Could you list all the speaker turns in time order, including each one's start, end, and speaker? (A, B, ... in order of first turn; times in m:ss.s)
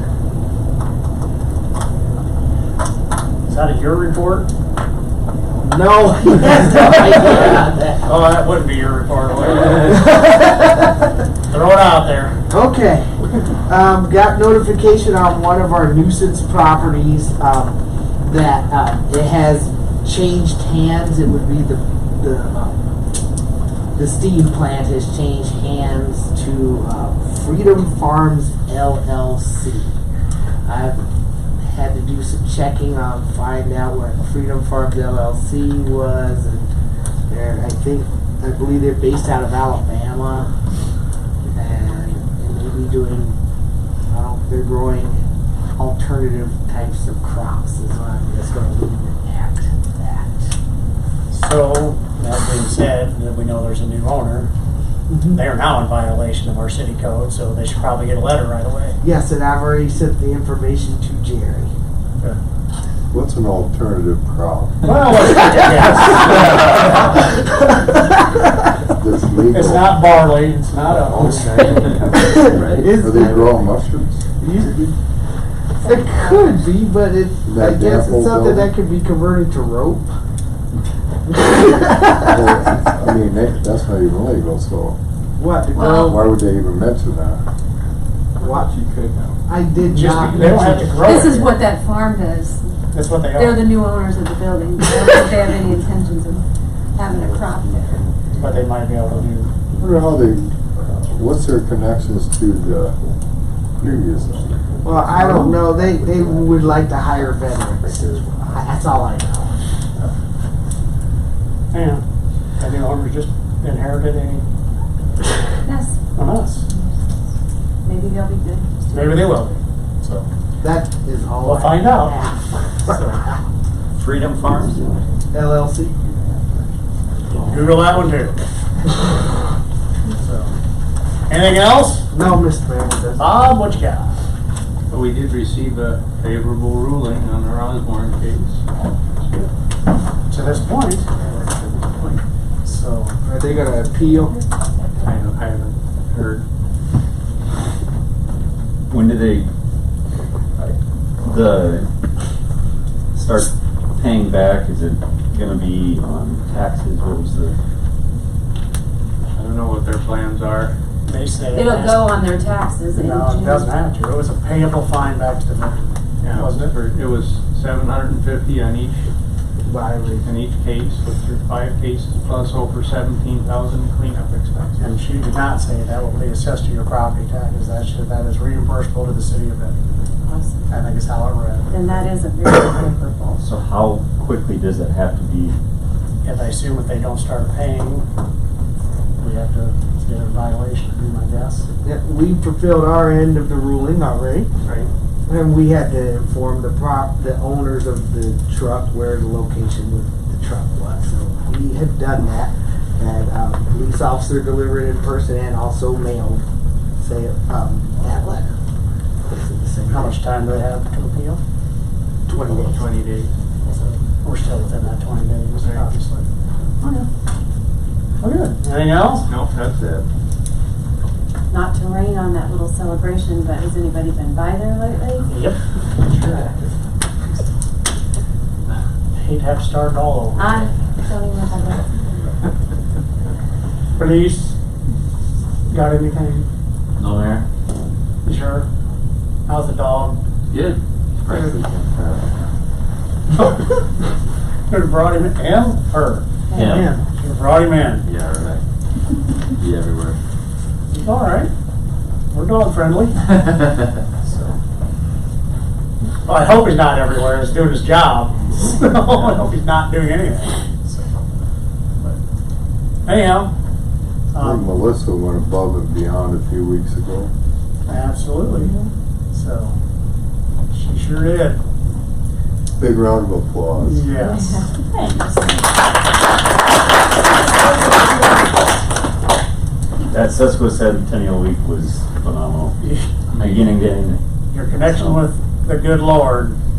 0:03.5-0:04.5 A
0:05.6-0:08.1 B
0:08.0-0:10.0 A
0:09.9-0:10.9 B
0:11.5-0:12.4 A
0:12.5-0:22.9 B
0:24.0-0:30.0 B
0:30.6-0:31.0 B
0:31.6-0:36.7 B
0:37.3-0:40.5 B
0:41.5-0:43.4 B
0:44.1-0:45.2 B
0:45.8-0:50.5 B
0:51.3-0:54.5 A
0:55.1-0:55.4 B
0:55.3-0:59.0 A
0:59.0-1:01.7 B
1:03.1-1:04.9 C
1:04.8-1:07.2 A
1:07.1-1:07.8 B
1:09.0-1:10.0 C
1:09.5-1:12.3 A
1:11.2-1:11.8 C
1:12.1-1:13.7 B
1:12.6-1:12.8 D
1:12.8-1:14.2 C
1:14.4-1:14.9 B
1:15.8-1:20.1 B
1:15.9-1:16.5 E
1:17.5-1:18.7 C
1:21.3-1:22.3 B
1:22.2-1:25.0 C
1:25.4-1:26.2 B
1:25.8-1:26.2 E
1:25.8-1:27.4 C
1:28.4-1:28.7 B
1:28.4-1:29.4 F
1:29.5-1:31.2 B
1:29.9-1:31.6 A
1:31.0-1:32.6 E
1:32.9-1:33.8 A
1:33.3-1:38.1 E
1:38.4-1:39.5 A
1:39.8-1:40.5 C
1:41.1-1:43.0 C
1:43.8-1:44.5 C
1:44.8-1:49.6 B
1:45.2-1:45.5 C
1:51.7-1:52.0 A
1:52.6-1:54.4 A
1:55.7-1:55.9 E
1:56.2-1:56.6 A
1:57.8-1:58.9 E
1:58.9-2:00.3 A
2:00.6-2:03.0 B
2:01.4-2:02.2 A
2:02.8-2:03.2 A
2:04.0-2:04.9 D
2:05.3-2:06.2 B
2:07.4-2:08.4 A
2:10.1-2:10.5 A
2:11.3-2:12.1 A
2:12.1-2:13.5 B
2:13.2-2:14.2 A
2:14.9-2:18.6 F
2:19.2-2:19.5 F
2:20.3-2:21.2 A
2:21.3-2:22.2 F
2:22.6-2:23.2 A
2:23.2-2:24.4 B
2:25.0-2:26.4 F
2:28.9-2:29.5 D
2:30.6-2:31.9 D
2:33.2-2:37.6 D
2:39.3-2:40.8 F
2:41.1-2:42.1 A
2:41.5-2:43.8 E
2:42.9-2:46.8 A
2:46.2-2:49.1 F
2:49.6-2:50.3 B
2:50.2-2:54.8 F
2:54.8-2:59.8 A
3:00.2-3:00.6 E
3:00.7-3:01.7 A
3:01.7-3:03.4 E
3:03.4-3:05.6 D
3:06.2-3:08.1 A
3:09.2-3:11.7 A
3:11.8-3:14.5 B
3:15.3-3:26.4 B
3:27.0-3:28.6 B
3:29.2-3:30.2 B
3:29.9-3:31.4 A
3:32.3-3:32.9 B
3:32.3-3:33.3 F
3:33.7-3:34.0 B
3:34.2-3:36.2 A
3:35.6-3:35.9 F
3:38.2-3:39.2 A
3:39.3-3:40.1 F
3:41.5-3:45.3 E
3:45.3-3:46.6 A
3:49.2-3:50.6 A
3:50.4-3:51.9 E
3:54.0-3:54.6 A
3:55.7-3:56.5 A
3:57.0-3:57.4 D
3:58.2-3:58.7 A
3:59.5-4:00.2 A
4:00.5-4:02.5 D
4:03.5-4:03.8 A
4:04.7-4:08.0 A
4:06.5-4:06.8 E
4:06.5-4:06.9 D
4:08.0-4:08.6 D
4:09.6-4:10.2 D
4:10.9-4:11.5 A
4:12.3-4:13.3 A
4:16.2-4:21.0 A
4:19.1-4:19.5 D
4:23.1-4:23.5 A
4:24.3-4:24.7 A
4:24.4-4:27.3 C
4:27.9-4:28.7 A
4:29.3-4:29.8 A
4:30.7-4:31.6 A
4:32.8-4:34.1 C
4:33.8-4:34.6 A
4:34.2-4:35.6 E
4:37.4-4:38.5 E
4:40.1-4:42.8 D
4:42.8-4:43.1 A
4:43.3-4:44.2 D
4:43.4-4:43.6 F
4:44.5-4:46.6 A